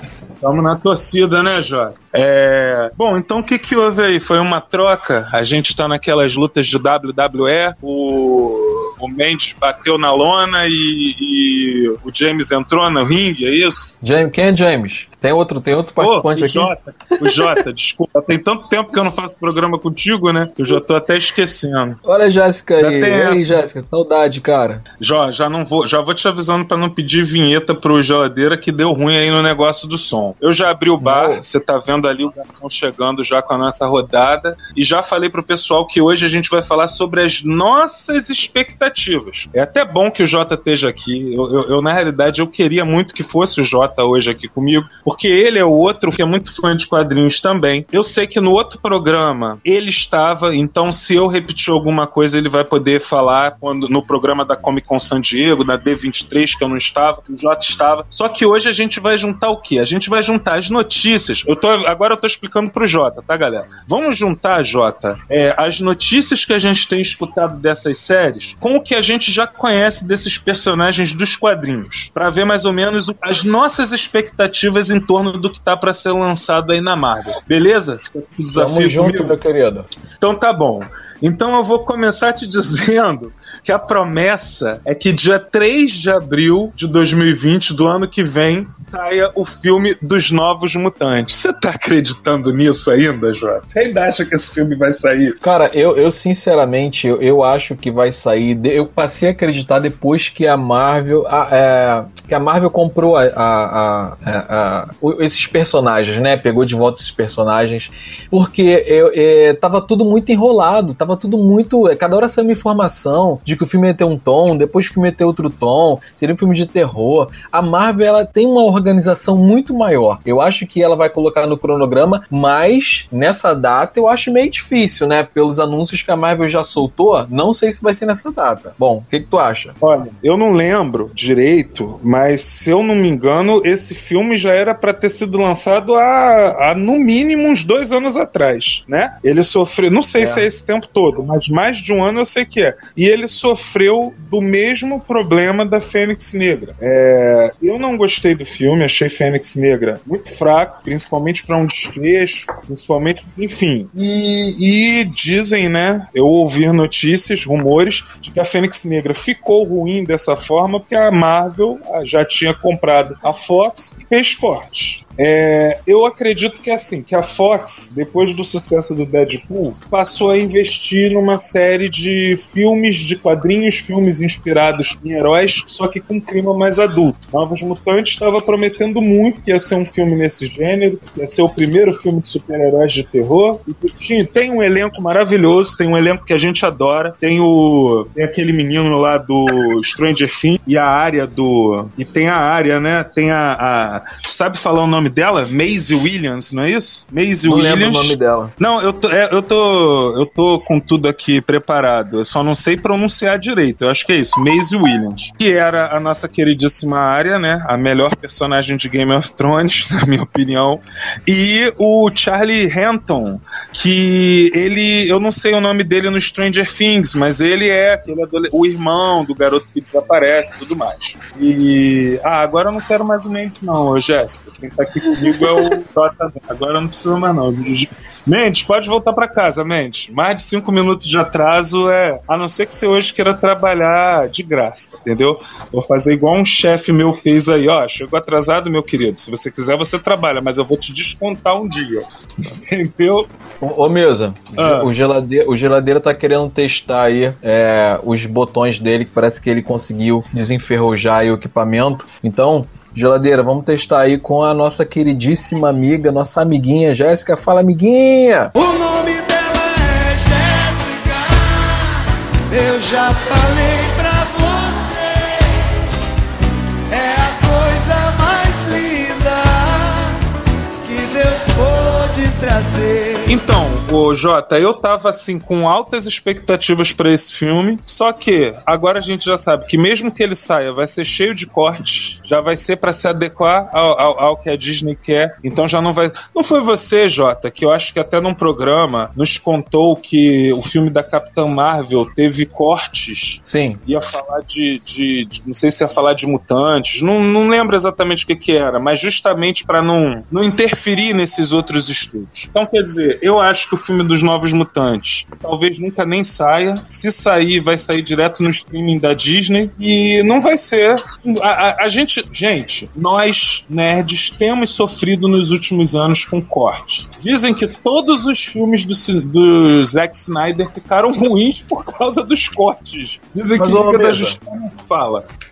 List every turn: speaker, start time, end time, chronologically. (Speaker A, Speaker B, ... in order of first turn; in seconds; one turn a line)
Speaker A: 0.4-13.9
Speaker B: 14.0-17.6
Speaker A: 16.0-22.0
Speaker B: 22.0-24.8
Speaker A: 22.8-23.6
Speaker A: 25.0-79.4
Speaker B: 31.0-31.4
Speaker B: 78.5-79.9
Speaker A: 80.2-95.3
Speaker B: 95.4-129.7
Speaker A: 129.8-243.3
Speaker B: 140.2-140.5
Speaker B: 197.4-198.5
Speaker B: 243.6-258.5
Speaker A: 244.6-244.9
Speaker C: 258.6-265.7
Speaker C: 266.9-270.2
Speaker C: 270.8-273.4
Speaker A: 273.3-325.2
Speaker B: 293.4-293.8
Speaker B: 323.5-324.4